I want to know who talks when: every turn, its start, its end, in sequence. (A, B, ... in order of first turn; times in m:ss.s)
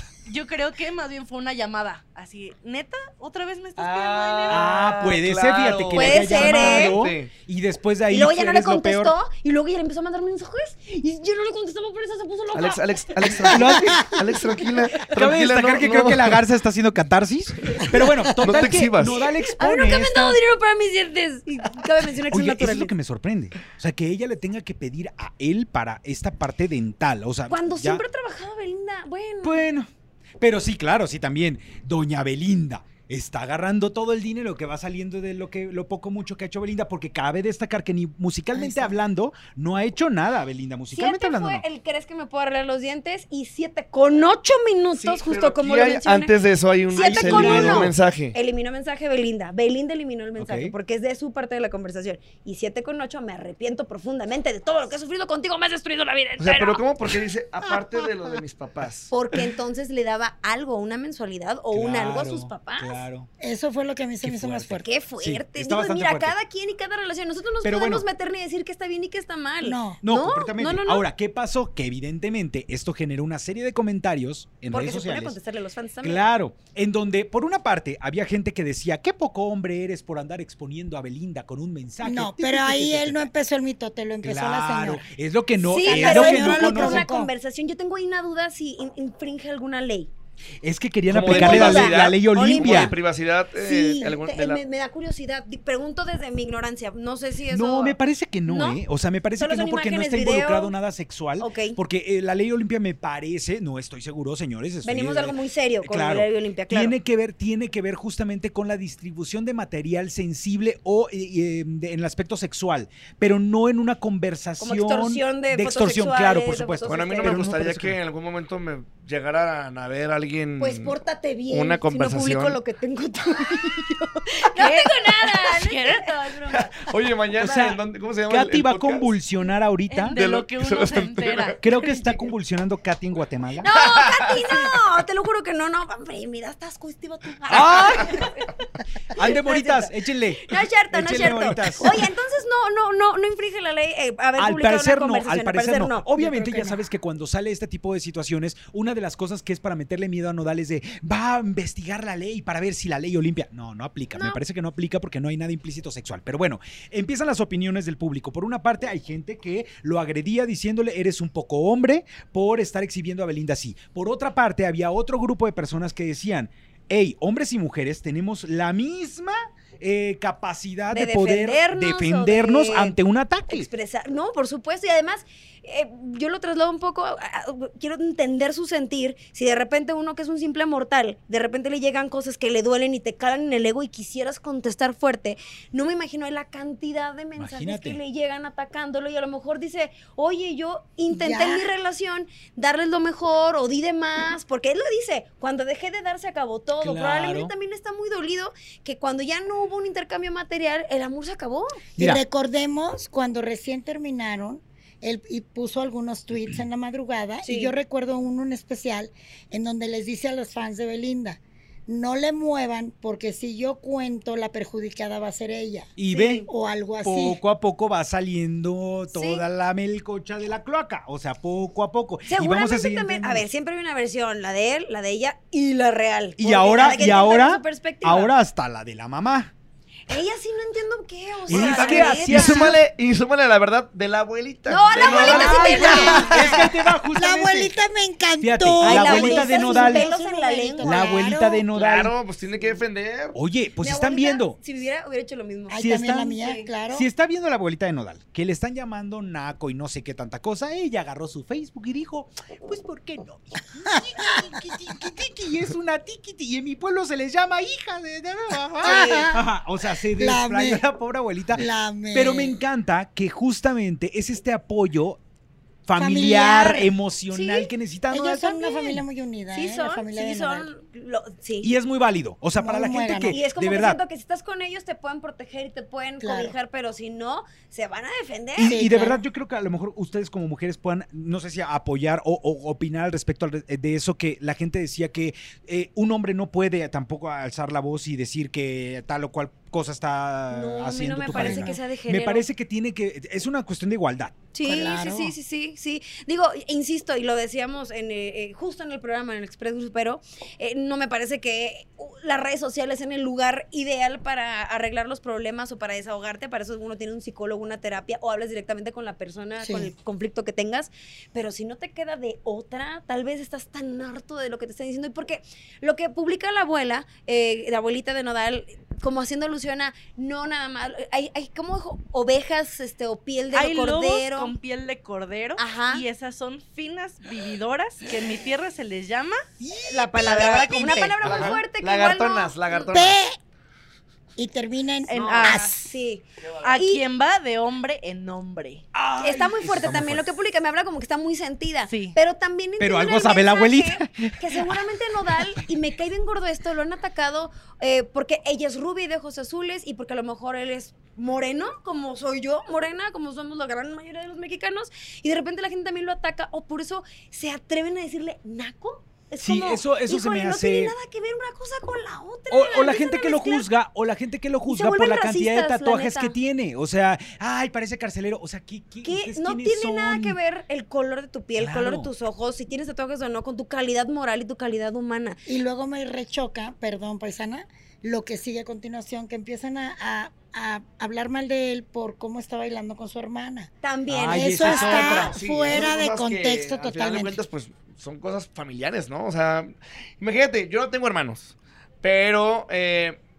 0:00.2-0:05.0 A
0:03.8-0:07.3 B
0:04.5-0:09.1 C
0:05.9-0:07.0 D
0:08.1-0:13.5 D
0:12.5-0:16.4 B
0:13.4-0:14.2 C
0:15.1-0:20.4 C
0:18.4-0:19.2 B
0:19.4-0:22.9 D
0:22.3-0:28.0 C
0:27.5-0:29.6 D
0:29.4-0:41.6 C
0:38.5-0:39.0 E
0:40.9-0:46.4 D
0:45.0-0:48.4 B
0:46.9-0:56.8 D
0:47.0-0:48.0 C
0:50.4-0:50.7 C
0:56.4-0:59.1 B
0:59.1-1:03.0 D
1:01.7-1:03.3 C
1:03.4-1:04.9 E
1:04.2-1:06.4 C
1:04.8-1:11.0 D
1:07.6-1:08.0 C
1:09.6-1:10.0 E
1:10.0-1:15.4 C
1:14.7-1:16.2 D
1:16.0-1:23.3 C
1:22.0-1:25.0 E
1:24.2-1:27.1 C
1:25.6-1:30.1 D
1:25.7-1:27.3 E
1:30.6-1:32.9 C
1:31.1-1:34.6 B
1:31.3-1:33.0 D
1:33.6-1:38.8 D
1:37.5-1:58.0 C
1:39.4-1:40.7 D
1:41.4-1:41.8 D
1:44.8-1:47.0 D
1:54.6-1:57.5 D
1:56.8-2:01.0 B
2:00.6-2:06.8 D
2:01.5-2:02.6 B
2:04.6-2:06.4 A
2:06.7-2:09.1 B
2:07.4-2:10.2 C
2:09.9-2:11.7 A
2:10.1-2:11.6 B
2:11.6-2:13.7 C
2:13.6-2:18.6 D
2:13.7-2:14.4 B
2:17.5-2:18.2 C
2:19.1-2:22.1 C
2:19.1-2:26.1 D
2:24.4-2:53.7 C
2:26.2-2:26.8 E
2:50.9-2:53.0 D
2:53.5-3:21.8 D
3:07.4-3:08.0 C
3:11.1-3:11.7 E
3:16.8-3:17.5 C
3:22.0-3:36.0 E
3:27.4-3:27.7 D
3:36.0-3:36.5 C
3:36.1-3:36.5 D
3:36.5-3:37.4 E
3:37.0-3:43.5 C
3:39.1-3:39.4 D
3:42.3-3:48.3 D
3:46.4-3:49.5 C
3:50.1-3:52.8 D
3:51.5-3:52.8 C
3:51.5-3:56.6 B
3:54.6-3:56.6 D
3:55.0-3:57.7 C
3:55.0-4:01.6 E
3:58.4-4:00.1 C
3:58.8-4:01.4 D
4:00.8-4:02.1 C
4:01.7-4:03.4 B
4:03.3-4:04.6 C
4:03.8-4:06.7 D
4:05.7-4:07.1 E
4:05.8-4:25.2 C
4:18.8-4:19.4 E
4:18.8-4:19.3 D
4:20.2-4:20.8 E
4:21.6-4:22.6 E
4:25.9-4:29.0 C
4:26.0-4:26.9 E
4:27.3-4:27.7 D
4:28.1-4:30.7 E
4:29.5-4:31.7 D
4:31.6-4:34.0 C
4:32.6-4:33.4 E
4:33.3-4:38.8 D
4:36.2-4:36.5 E
4:38.6-4:54.4 C
4:38.6-4:39.2 E
4:50.5-4:52.5 D
4:51.3-4:51.8 E
4:54.5-5:24.6 D
4:54.6-4:55.4 E
5:09.6-5:09.9 E
5:23.5-5:29.4 A
5:25.6-5:26.0 D
5:29.6-5:30.5 C
5:29.8-5:32.9 D
5:30.1-5:31.1 A
5:30.7-5:33.2 B
5:31.2-5:31.6 C
5:32.9-5:33.4 E
5:34.4-5:35.8 E
5:35.1-5:35.8 A
5:35.1-5:37.0 D
5:36.6-5:38.8 A
5:38.9-5:40.3 C
5:39.2-6:03.7 D
5:41.9-5:42.2 A
5:42.8-5:44.9 C
5:59.4-6:00.9 C
6:02.5-6:10.4 C
6:04.7-6:06.4 D
6:09.0-6:15.4 D
6:11.6-6:12.1 C
6:15.5-6:23.7 E
6:23.8-6:25.3 D
6:24.1-6:25.3 C
6:24.3-6:27.4 E
6:24.7-6:33.2 B